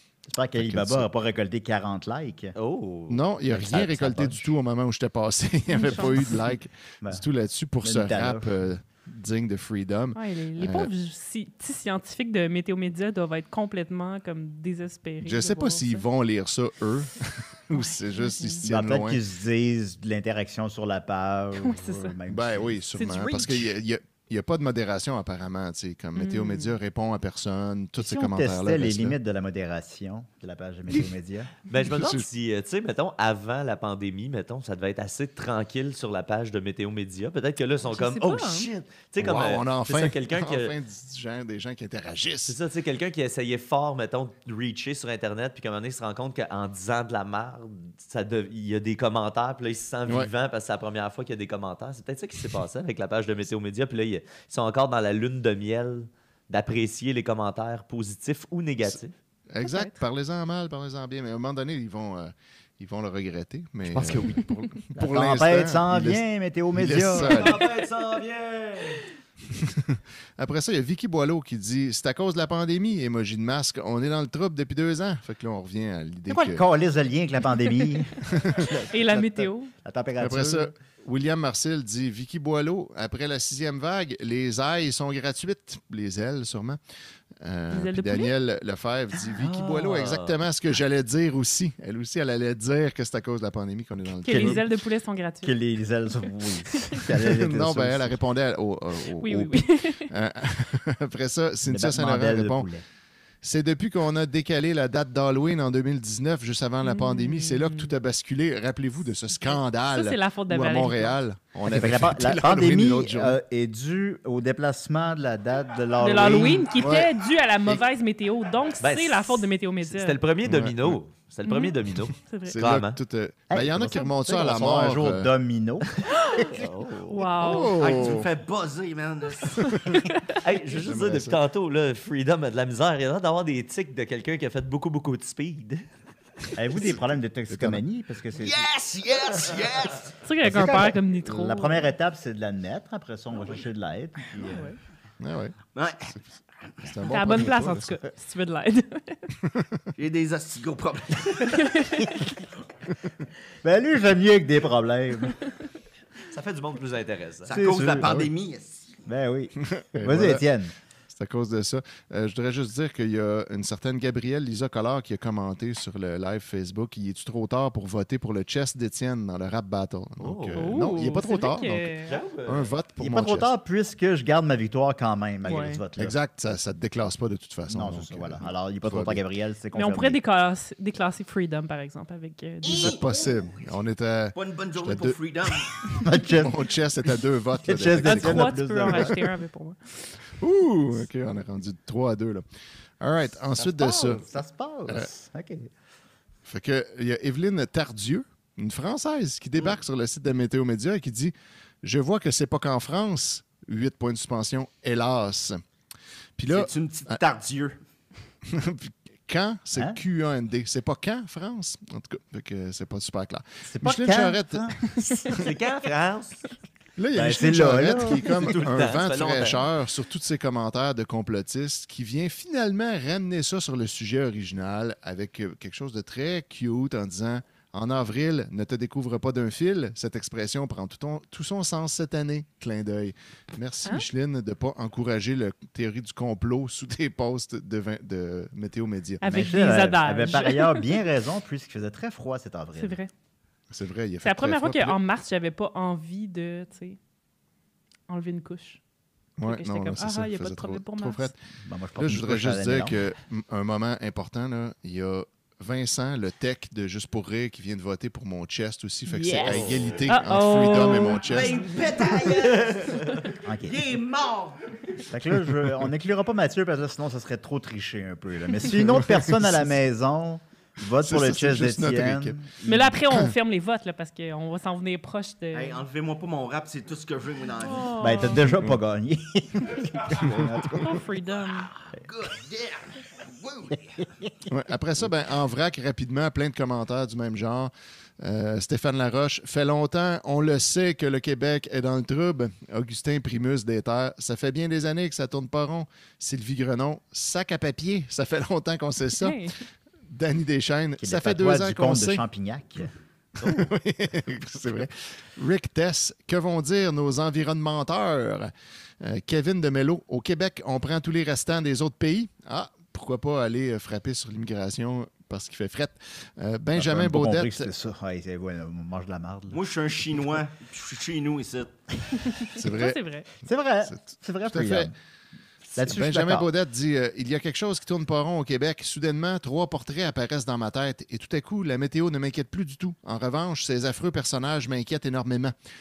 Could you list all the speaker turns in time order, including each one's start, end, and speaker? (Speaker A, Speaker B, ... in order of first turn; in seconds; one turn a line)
Speaker A: 0.3-2.5
Speaker B: 0.6-1.1
Speaker C: 2.5-3.2
Speaker B: 3.1-10.9
Speaker A: 3.5-4.5
Speaker D: 5.7-6.3
Speaker A: 7.8-8.5
Speaker D: 10.1-16.1
Speaker B: 15.2-19.2
Speaker D: 17.7-18.6
Speaker A: 18.6-22.8
Speaker D: 21.6-22.1
Speaker B: 22.3-29.1
Speaker D: 22.9-23.7
Speaker D: 26.1-26.8
Speaker A: 28.0-31.5
Speaker C: 31.7-40.7
Speaker B: 31.9-32.3
Speaker D: 37.8-38.7
Speaker B: 39.2-42.6
Speaker C: 42.5-59.1
Speaker B: 59.5-67.7
Speaker D: 59.6-60.0
Speaker C: 63.9-64.4
Speaker A: 64.9-67.5
Speaker E: 67.2-69.0
Speaker B: 69.5-76.6
Speaker A: 76.3-80.7
Speaker B: 78.3-78.7
Speaker D: 78.9-79.7
Speaker B: 80.2-86.8
Speaker B: 87.4-94.6
Speaker D: 87.7-88.3
Speaker C: 89.3-90.4
Speaker D: 94.2-95.5
Speaker A: 94.3-94.6
Speaker A: 95.4-98.2
Speaker D: 96.7-97.0
Speaker B: 97.2-102.7
Speaker D: 99.2-100.1
Speaker A: 101.7-102.8
Speaker B: 103.4-113.4
Speaker D: 106.8-107.9
Speaker D: 109.4-111.2
Speaker A: 111.7-116.7
Speaker D: 116.0-120.2
Speaker B: 116.7-117.1
Speaker C: 118.8-123.0
Speaker B: 120.4-121.0
Speaker D: 121.4-122.6
Speaker B: 122.5-125.3
Speaker A: 123.5-125.8
Speaker D: 126.1-126.5
Speaker C: 126.4-127.2
Speaker D: 127.1-127.7
Speaker B: 127.4-128.3
Speaker E: 127.8-129.8
Speaker D: 129.5-130.3
Speaker B: 129.6-130.0
Speaker C: 130.4-135.8
Speaker B: 130.7-131.4
Speaker A: 136.6-138.7
Speaker B: 137.5-137.8
Speaker E: 138.3-140.1
Speaker D: 140.2-141.9
Speaker A: 140.4-144.7
Speaker D: 144.5-144.8
Speaker B: 145.2-145.6
Speaker E: 145.7-146.7
Speaker B: 146.8-147.9
Speaker D: 147.0-149.3
Speaker B: 149.4-149.9
Speaker E: 149.9-151.8
Speaker D: 151.5-152.1
Speaker A: 153.6-155.3
Speaker C: 156.3-157.5
Speaker E: 157.4-159.0
Speaker A: 157.5-158.2
Speaker B: 158.0-158.3
Speaker A: 159.1-160.7
Speaker B: 159.6-160.4
Speaker B: 161.1-173.5
Speaker C: 170.2-170.7
Speaker D: 170.6-172.2
Speaker C: 172.1-172.7
Speaker A: 173.0-176.1
Speaker D: 175.4-175.8
Speaker B: 176.0-179.2
Speaker A: 177.7-180.2
Speaker D: 179.7-183.0
Speaker E: 182.6-183.6
Speaker B: 182.7-185.2
Speaker E: 184.3-186.0
Speaker A: 186.0-186.6
Speaker B: 186.3-189.2
Speaker A: 187.7-189.1
Speaker D: 188.0-190.2
Speaker B: 190.4-192.4
Speaker B: 193.0-194.2
Speaker A: 193.6-195.7
Speaker B: 196.4-205.6
Speaker B: 206.4-207.1
Speaker E: 206.5-207.8
Speaker B: 208.5-214.7
Speaker A: 209.7-210.0
Speaker A: 213.7-214.8
Speaker D: 215.0-215.2
Speaker C: 215.3-216.5
Speaker B: 217.0-239.2
Speaker A: 217.1-218.4
Speaker C: 218.4-219.6
Speaker D: 239.2-241.0
Speaker A: 239.2-243.0
Speaker D: 242.8-243.1
Speaker B: 243.7-245.0
Speaker D: 244.2-247.0
Speaker D: 248.1-248.8
Speaker B: 249.4-251.4
Speaker D: 249.4-251.3
Speaker A: 251.6-253.0
Speaker B: 252.0-261.6
Speaker D: 259.1-261.7
Speaker C: 259.4-260.0
Speaker E: 261.2-265.1
Speaker A: 263.4-263.8
Speaker A: 265.1-272.8
Speaker B: 268.8-269.6
Speaker B: 271.0-272.4
Speaker D: 272.6-275.8
Speaker E: 275.5-278.0
Speaker D: 277.6-278.5
Speaker A: 278.0-281.0
Speaker D: 280.8-281.7
Speaker E: 281.9-284.0
Speaker B: 284.5-299.4
Speaker D: 299.2-299.6
Speaker B: 300.1-302.2
Speaker A: 301.0-302.9
Speaker B: 303.4-317.7
Speaker A: 316.7-319.6
Speaker E: 319.5-321.8
Speaker B: 322.5-323.0
Speaker D: 322.5-323.2
Speaker A: 323.4-324.9
Speaker B: 323.9-324.9
Speaker A: 325.8-326.5
Speaker B: 325.8-335.5